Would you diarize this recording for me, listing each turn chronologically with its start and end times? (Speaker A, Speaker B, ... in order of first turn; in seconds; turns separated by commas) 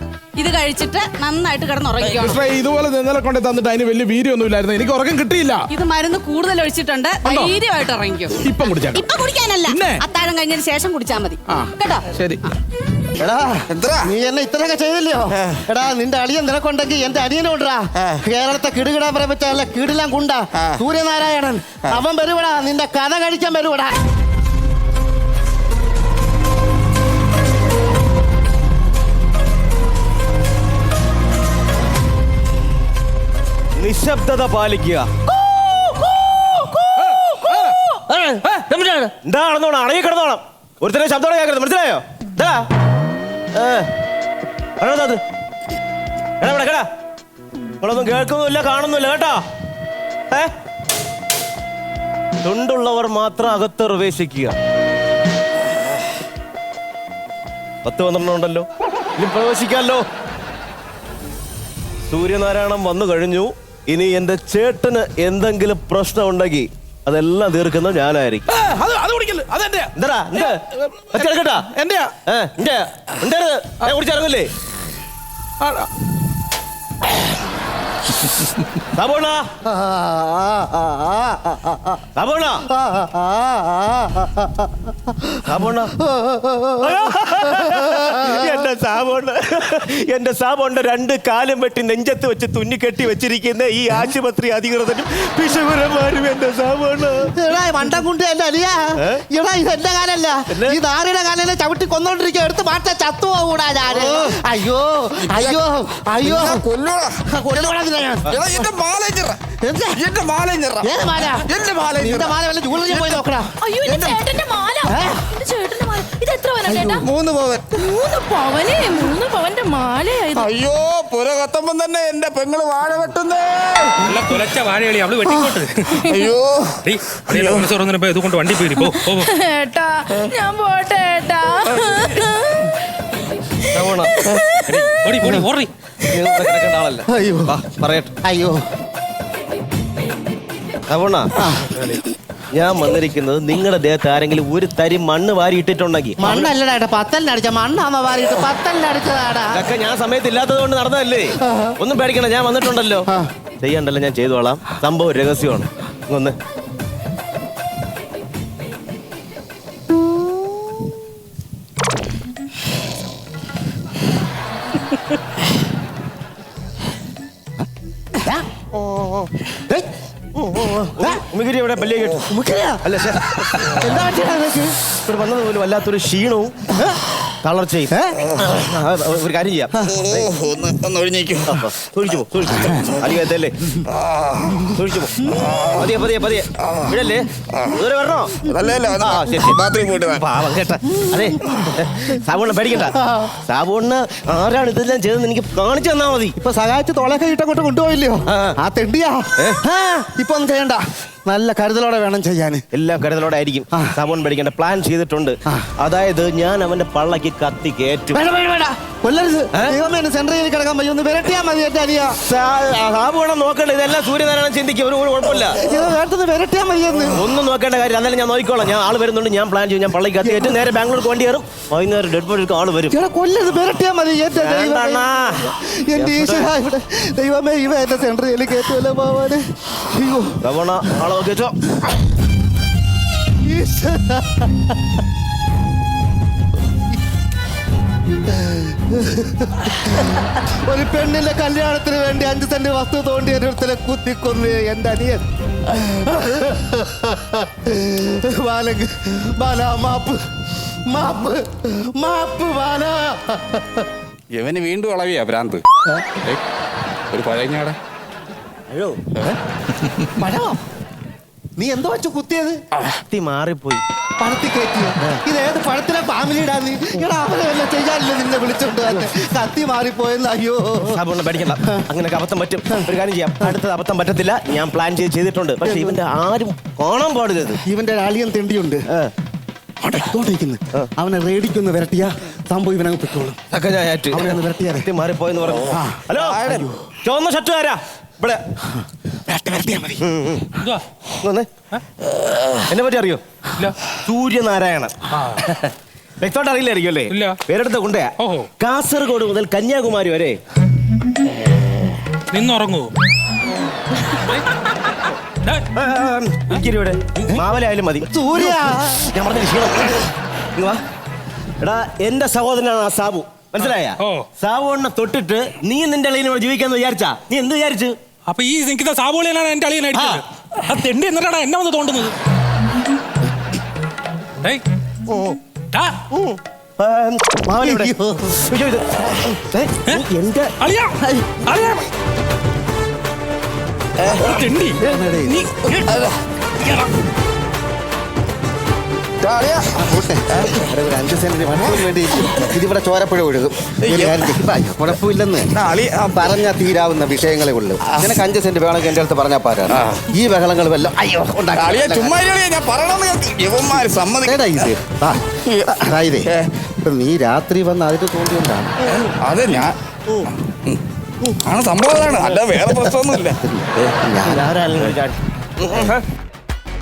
Speaker A: 0.4-2.4, Speaker B: 2.0-5.6, Speaker A: 5.7-12.5, Speaker B: 7.2-7.5, Speaker B: 8.4-9.0, Speaker B: 9.7-10.0, Speaker B: 11.5-12.4, Speaker C: 13.2-23.9, Speaker D: 13.7-14.1, Speaker D: 20.6-20.8, Speaker E: 33.8-42.6, Speaker E: 43.5-43.9, Speaker E: 44.8-45.2, Speaker E: 46.4-46.9, Speaker E: 47.8-49.4, Speaker E: 52.4-54.5, Speaker E: 57.8-60.0, Speaker E: 62.1-68.4, Speaker B: 68.5-72.1, Speaker E: 70.0-70.6, Speaker E: 71.1-71.7, Speaker E: 72.3-74.5, Speaker B: 75.6-75.9, Speaker E: 78.9-79.5, Speaker C: 79.7-82.0, Speaker E: 82.2-82.6, Speaker C: 82.7-88.7, Speaker E: 85.5-85.9, Speaker E: 86.8-97.3, Speaker C: 97.4-106.6, Speaker E: 100.5-100.8, Speaker D: 104.0-104.3, Speaker D: 105.3-105.6, Speaker D: 106.2-107.1, Speaker C: 107.3-108.3, Speaker D: 108.3-109.4, Speaker C: 109.6-110.0, Speaker D: 110.0-110.9, Speaker C: 110.8-114.1, Speaker D: 111.4-112.3, Speaker D: 112.9-113.2, Speaker F: 113.6-117.0, Speaker C: 114.9-115.2, Speaker C: 116.6-117.0, Speaker D: 117.0-117.8, Speaker F: 117.8-120.5, Speaker D: 120.3-124.0, Speaker G: 124.0-126.0, Speaker D: 126.0-127.7, Speaker G: 126.8-129.3, Speaker F: 128.8-132.7, Speaker E: 133.7-134.1, Speaker F: 133.9-134.8, Speaker G: 134.7-135.7, Speaker E: 136.1-138.1, Speaker C: 137.1-137.6, Speaker C: 138.2-138.6, Speaker E: 140.9-141.3, Speaker C: 141.4-141.7, Speaker E: 142.5-146.5, Speaker C: 146.2-149.7, Speaker E: 149.5-156.3, Speaker C: 151.4-151.7, Speaker C: 168.2-168.4, Speaker E: 170.3-172.3, Speaker C: 171.0-171.2, Speaker C: 172.2-172.8, Speaker E: 172.8-173.7, Speaker C: 173.7-174.8, Speaker E: 175.0-176.6, Speaker C: 176.7-177.0, Speaker E: 177.4-180.3, Speaker C: 177.9-178.2, Speaker D: 179.9-181.6, Speaker E: 181.4-183.8, Speaker D: 183.9-184.6, Speaker E: 184.7-188.4, Speaker D: 185.5-185.8, Speaker D: 186.6-186.9, Speaker D: 188.4-190.4, Speaker E: 189.0-196.3, Speaker C: 193.0-193.3, Speaker C: 196.3-202.6, Speaker E: 198.3-198.6, Speaker E: 199.4-199.7, Speaker E: 202.7-208.2, Speaker C: 203.7-204.0, Speaker C: 208.1-212.2, Speaker E: 212.2-215.6, Speaker C: 215.4-217.2, Speaker E: 217.1-222.9, Speaker C: 220.2-220.6, Speaker C: 222.9-231.0, Speaker E: 224.3-226.5, Speaker E: 230.4-231.6, Speaker C: 233.5-234.6, Speaker C: 238.4-250.2, Speaker C: 250.9-253.8, Speaker D: 254.3-255.6, Speaker D: 257.1-257.8, Speaker E: 258.7-259.0, Speaker C: 260.2-260.6, Speaker C: 261.6-262.6, Speaker E: 263.0-263.8, Speaker C: 264.2-271.0, Speaker E: 270.8-277.6, Speaker C: 271.6-271.9, Speaker C: 275.6-276.0, Speaker C: 277.7-278.9, Speaker C: 279.8-283.4, Speaker E: 283.5-288.4, Speaker C: 284.1-284.9, Speaker C: 285.7-286.7, Speaker D: 286.2-286.6, Speaker C: 289.3-290.0, Speaker E: 290.0-290.5, Speaker E: 291.2-291.6, Speaker E: 292.7-293.2, Speaker E: 294.0-300.4, Speaker G: 295.1-295.5, Speaker G: 297.1-297.4, Speaker G: 298.2-298.5, Speaker G: 302.3-302.9, Speaker E: 305.7-310.8, Speaker C: 308.1-309.2, Speaker E: 311.6-317.9, Speaker G: 313.6-314.2, Speaker G: 318.2-322.1, Speaker E: 325.1-325.4, Speaker E: 326.1-330.5, Speaker C: 327.5-328.4, Speaker G: 330.6-330.9, Speaker G: 331.4-331.9, Speaker G: 334.0-336.0, Speaker C: 334.8-335.5, Speaker D: 339.2-339.8, Speaker C: 339.7-345.5, Speaker D: 343.8-344.3, Speaker D: 345.5-346.4, Speaker C: 346.1-352.1, Speaker D: 349.7-350.0, Speaker D: 351.6-354.5, Speaker C: 354.2-358.8, Speaker D: 355.4-356.5, Speaker D: 358.9-359.7, Speaker D: 360.5-360.8, Speaker D: 361.4-363.4, Speaker C: 363.3-364.5, Speaker E: 364.2-366.0